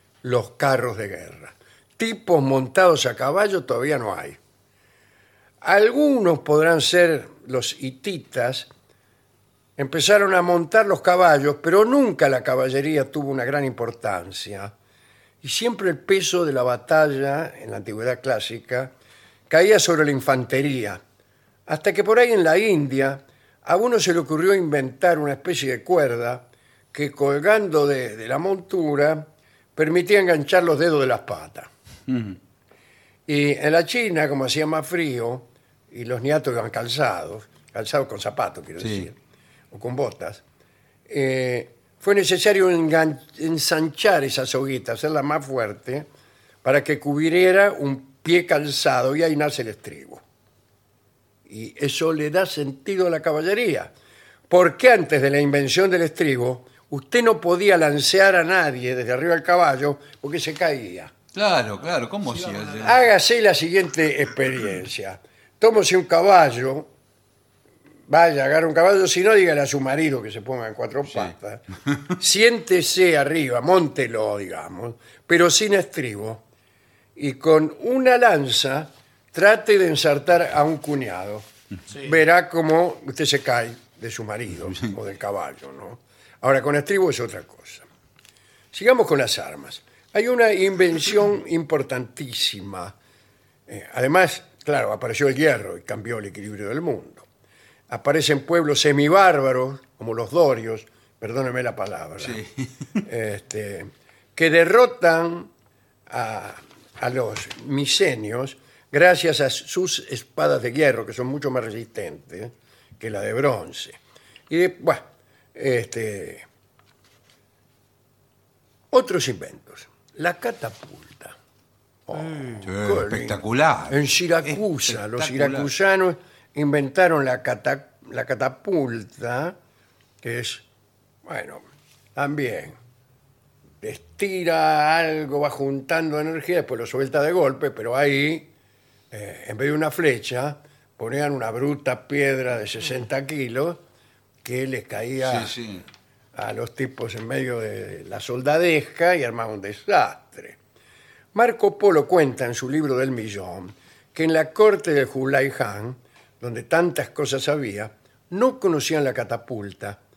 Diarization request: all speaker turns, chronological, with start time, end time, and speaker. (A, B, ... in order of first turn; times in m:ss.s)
0:00.2-0:04.4 A
0:05.6-0:08.7 A
0:09.8-0:14.7 A
0:15.4-0:18.9 A
0:19.5-0:21.0 A
0:21.7-0:31.7 A
0:32.1-0:32.4 B
0:33.3-0:39.2 A
0:38.8-0:39.1 B
0:39.7-0:40.4 A
0:41.1-0:46.1 A
0:46.6-0:50.2 A
0:51.5-0:53.9 A
0:54.5-1:01.1 A
1:01.3-1:03.0 B
1:02.8-1:06.9 A
1:08.1-1:11.6 A
1:11.1-1:11.3 B
1:12.2-1:16.4 A
1:17.2-1:21.5 A
1:22.0-1:27.9 A
1:28.7-1:33.0 A
1:33.7-1:37.2 A
1:37.9-1:42.4 A
1:42.2-1:42.9 B
1:43.0-1:45.5 A
1:46.1-1:54.0 A
1:54.5-1:56.4 A
1:58.9-2:01.4 A
2:02.1-2:09.6 A
2:02.6-2:05.7 B
2:10.2-2:10.6 A
2:11.3-2:11.6 A
2:12.2-2:12.8 A
2:13.8-2:18.5 A
2:19.1-2:23.8 A
2:24.4-2:25.6 A
2:25.2-2:25.8 B
2:26.4-2:30.6 A
2:31.3-2:40.0 A